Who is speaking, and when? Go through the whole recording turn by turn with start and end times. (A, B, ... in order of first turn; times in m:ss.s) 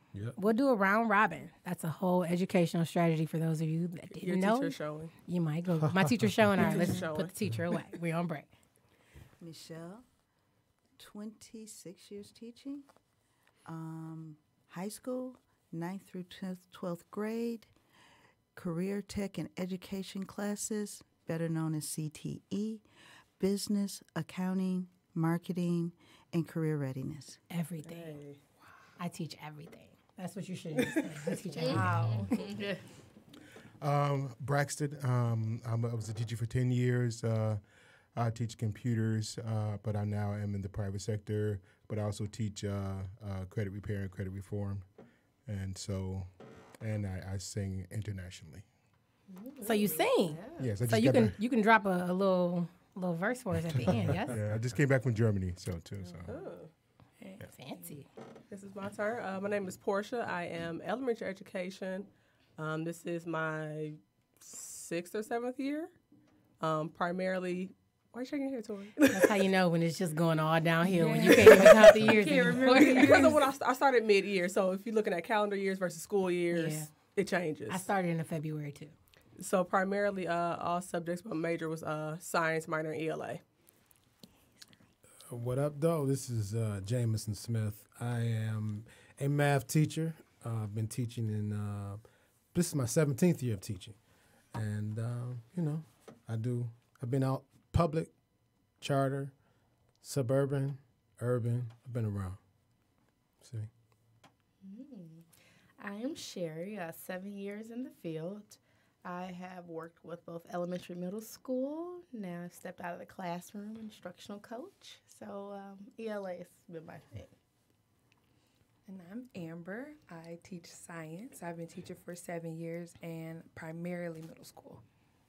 0:00.3-0:08.5 A
0:04.2-0:05.1 B
0:05.9-0:06.7 C
0:06.6-0:07.3 B
0:09.4-0:10.0 D
0:11.0-0:12.8 D
0:13.6-0:17.7 D
0:18.5-0:22.8 D
0:23.4-0:27.4 D
0:27.5-0:28.2 A
0:27.8-0:28.4 B
0:29.0-0:32.0 A
0:31.6-0:32.8 E
0:31.7-0:32.4 F
0:31.8-0:32.2 C
0:33.8-0:37.6 G
0:38.1-0:44.8 G
0:45.4-0:48.6 G
0:49.3-0:50.7 E
0:49.6-0:54.3 A
0:50.6-0:51.4 G
0:53.9-0:54.4 C
0:54.3-0:56.4 G
0:56.0-0:56.4 E
0:56.3-0:56.7 B
0:57.4-0:58.1 A
0:58.5-1:05.9 B
1:06.6-1:09.3 B
1:09.1-1:13.2 A
1:10.8-1:13.4 F
1:11.4-1:12.0 B
1:12.7-1:17.8 B
1:16.5-1:16.9 A
1:17.7-1:18.9 A
1:19.4-1:23.4 B
1:25.3-1:34.0 C
1:34.5-1:38.1 C
1:38.8-1:39.3 C
1:40.0-1:42.4 C
1:43.4-1:43.7 C
1:44.6-1:45.2 E
1:45.8-1:57.3 E
1:58.9-2:04.8 F